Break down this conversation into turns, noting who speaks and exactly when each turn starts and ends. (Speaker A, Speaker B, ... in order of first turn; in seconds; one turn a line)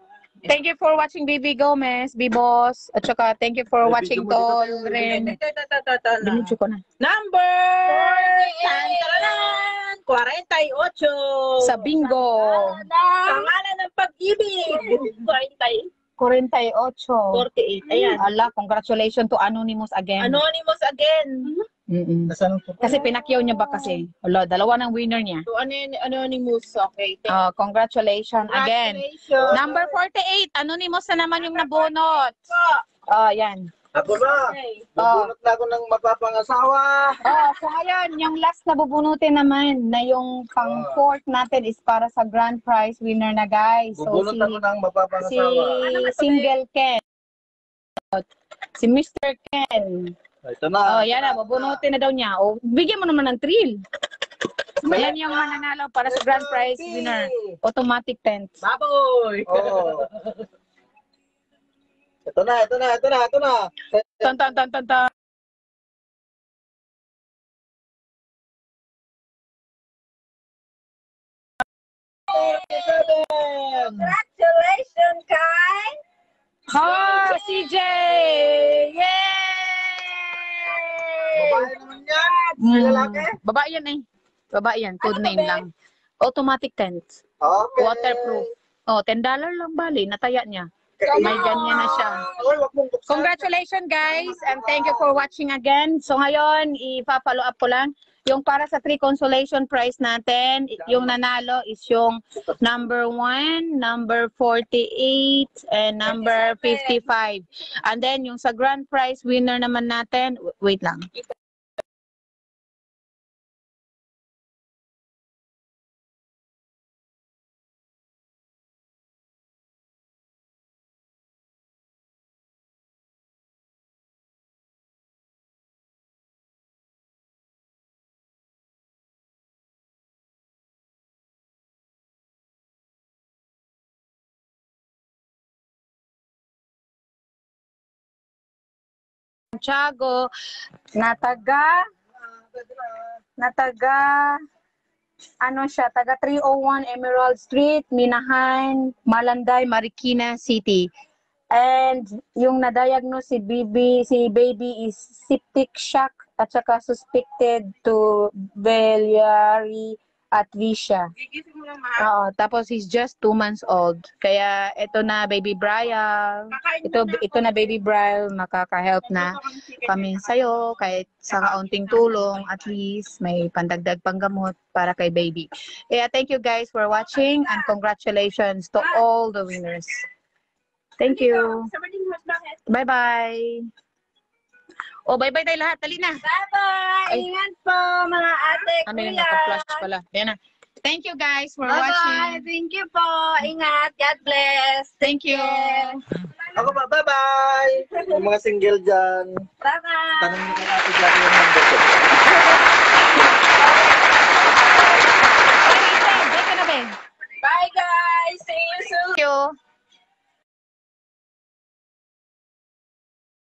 Speaker A: 0.5-5.4
Speaker B: 3.8-5.0
Speaker C: 4.2-11.9
Speaker A: 6.2-6.8
Speaker D: 7.9-9.3
Speaker A: 11.6-12.8
Speaker D: 12.0-13.5
Speaker C: 13.3-15.9
Speaker D: 14.8-15.0
Speaker A: 16.2-17.4
Speaker C: 17.3-18.2
Speaker D: 17.9-18.1
Speaker A: 18.2-20.4
Speaker C: 20.2-21.6
Speaker A: 21.9-25.5
Speaker B: 22.3-23.0
Speaker C: 23.0-24.0
Speaker C: 25.5-27.4
Speaker A: 27.3-32.4
Speaker C: 28.5-29.9
Speaker C: 31.4-32.9
Speaker A: 33.1-33.7
Speaker B: 33.9-37.2
Speaker C: 34.3-34.9
Speaker A: 35.0-35.3
Speaker A: 37.2-44.6
Speaker B: 40.6-41.0
Speaker B: 44.0-45.9
Speaker A: 45.2-47.0
Speaker C: 45.9-46.5
Speaker A: 48.8-50.1
Speaker B: 50.4-51.8
Speaker A: 50.9-53.8
Speaker A: 54.8-58.5
Speaker B: 54.9-55.3
Speaker B: 56.1-57.6
Speaker C: 58.6-60.5
Speaker B: 59.5-60.1
Speaker B: 62.2-64.3
Speaker A: 64.2-65.1
Speaker B: 72.3-74.1
Speaker D: 72.4-73.0
Speaker D: 73.8-75.9
Speaker A: 76.7-80.4
Speaker B: 81.3-83.2
Speaker D: 81.3-83.3
Speaker A: 82.6-85.7
Speaker D: 85.0-85.6
Speaker A: 86.2-87.2
Speaker B: 87.4-88.5
Speaker A: 87.8-92.3
Speaker B: 91.0-93.5
Speaker D: 91.2-91.9
Speaker C: 91.5-92.0
Speaker A: 93.1-111.1
Speaker B: 94.2-95.1
Speaker A: 139.6-140.3
Speaker A: 140.9-141.8
Speaker A: 143.4-144.4
Speaker A: 145.4-150.9
Speaker A: 151.5-161.1
Speaker C: 161.2-162.1
Speaker A: 162.0-180.1
Speaker C: 166.5-167.7
Speaker C: 169.1-172.5
Speaker A: 181.0-181.7
Speaker C: 181.1-182.6
Speaker A: 182.7-183.7
Speaker A: 185.1-186.2
Speaker D: 186.2-189.9
Speaker A: 188.9-192.5
Speaker D: 191.7-196.0
Speaker A: 195.0-196.0
Speaker B: 196.6-199.4
Speaker D: 199.6-200.8
Speaker B: 200.2-202.0
Speaker D: 203.6-204.8
Speaker A: 205.6-206.9
Speaker C: 207.4-209.2
Speaker A: 209.2-209.5